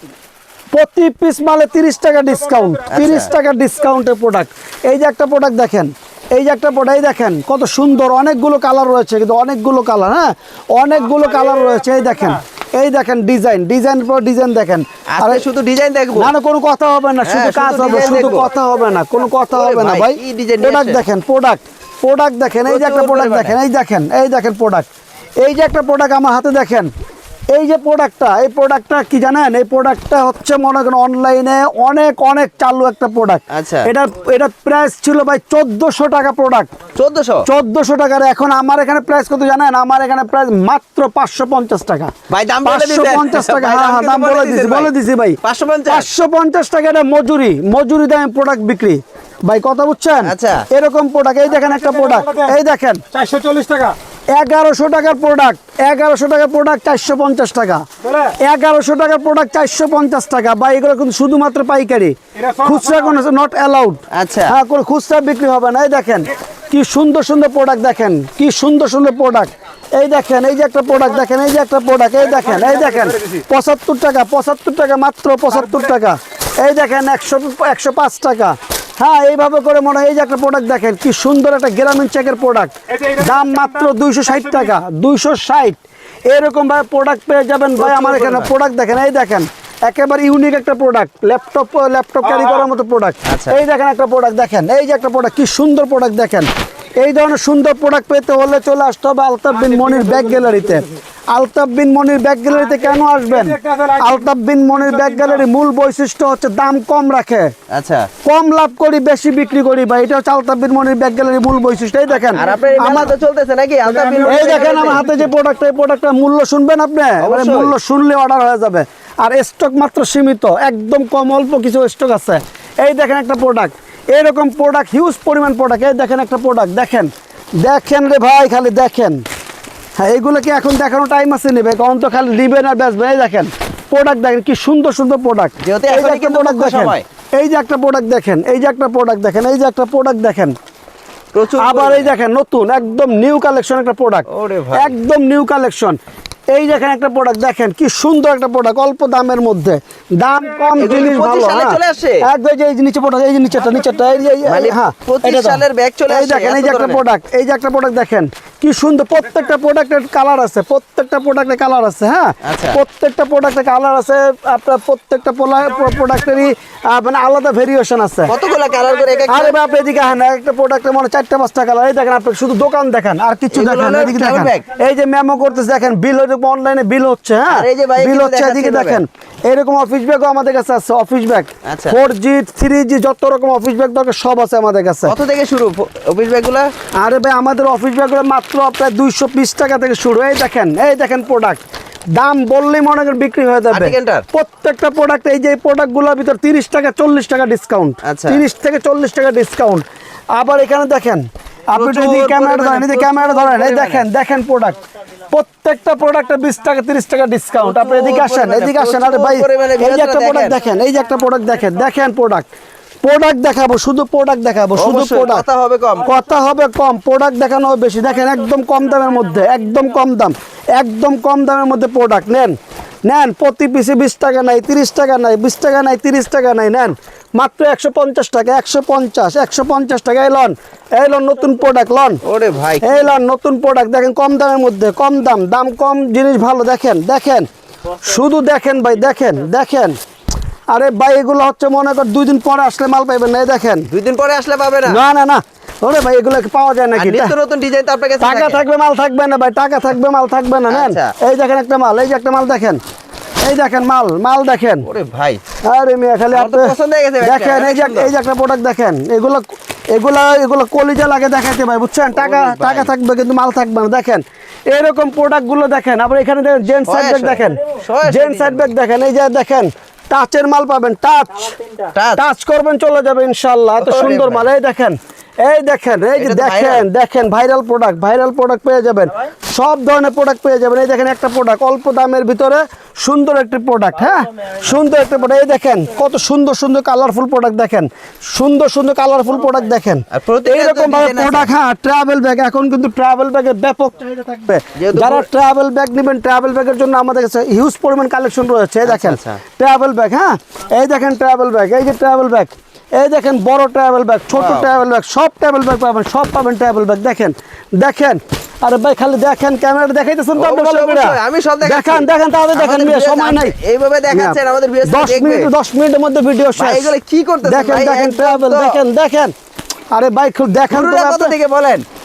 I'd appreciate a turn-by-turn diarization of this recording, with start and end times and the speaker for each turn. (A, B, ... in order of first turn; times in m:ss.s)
0:00.7-0:15.4 A
0:02.9-0:03.3 B
0:15.1-0:16.3 B
0:16.1-0:24.8 A
0:17.2-0:18.5 B
0:19.5-0:21.0 B
0:22.7-0:23.6 B
0:25.4-0:26.9 A
0:27.5-0:36.7 A
0:33.5-0:33.9 B
0:36.9-0:37.4 B
0:37.4-0:42.1 A
0:42.3-0:44.9 B
0:42.6-0:53.0 A
0:45.4-0:46.1 B
0:50.2-0:50.6 B
0:51.7-0:52.5 C
0:53.1-0:54.0 C
0:54.3-1:36.5 A
0:58.1-0:58.3 C
1:02.4-1:03.0 C
1:04.1-1:04.6 B
1:12.4-1:13.2 C
1:23.0-1:23.6 C
1:27.8-1:28.5 B
1:33.2-1:33.6 B
1:37.0-1:47.5 A
1:39.8-1:40.5 C
1:43.6-1:44.0 C
1:47.7-1:48.1 B
1:48.2-1:53.1 A
1:52.3-1:55.0 B
1:54.2-2:07.1 A
1:57.2-1:57.7 B
2:07.6-2:09.2 A
2:10.0-2:20.5 A
2:15.6-2:17.0 B
2:21.3-2:22.1 B
2:21.6-2:26.0 A
2:24.3-2:24.9 B
2:26.5-2:48.3 A
2:30.8-2:32.2 B
2:34.4-2:37.0 B
2:42.4-2:42.8 B
2:48.3-2:49.6 B
2:49.3-3:05.1 A
2:53.5-2:54.6 B
2:57.5-2:59.0 B
3:01.6-3:02.0 B
3:05.0-3:06.7 B
3:07.0-3:11.6 A
3:12.2-3:19.8 A
3:13.7-3:14.2 B
3:18.0-3:18.4 B
3:20.4-3:24.8 A
3:21.7-3:24.0 B
3:25.3-3:32.4 A
3:27.6-3:30.6 B
3:33.0-3:35.4 A
3:34.8-3:36.2 B
3:36.0-3:52.2 A
3:52.2-3:53.1 B
3:52.8-3:57.4 A
3:58.0-4:00.0 A
4:00.7-4:03.9 A
4:03.9-4:05.0 B
4:04.8-4:07.3 A
4:06.9-4:08.6 B
4:08.2-4:12.8 A
4:10.7-4:11.1 B
4:13.4-4:14.9 A
4:14.8-4:15.4 B
4:15.6-4:31.6 A
4:16.3-4:18.1 B
4:22.1-4:22.9 B
4:26.8-4:28.7 B
4:31.9-4:32.2 B
4:32.2-5:13.5 A
4:33.8-4:34.5 B
4:36.2-4:36.8 B
4:50.1-4:51.5 B
4:54.8-4:55.3 B
4:58.8-4:59.4 B
5:04.3-5:04.7 B
5:10.3-5:15.5 B
5:14.1-5:16.9 A
5:16.6-5:18.8 B
5:17.4-5:19.3 A
5:19.9-5:21.3 A
5:20.7-5:21.8 B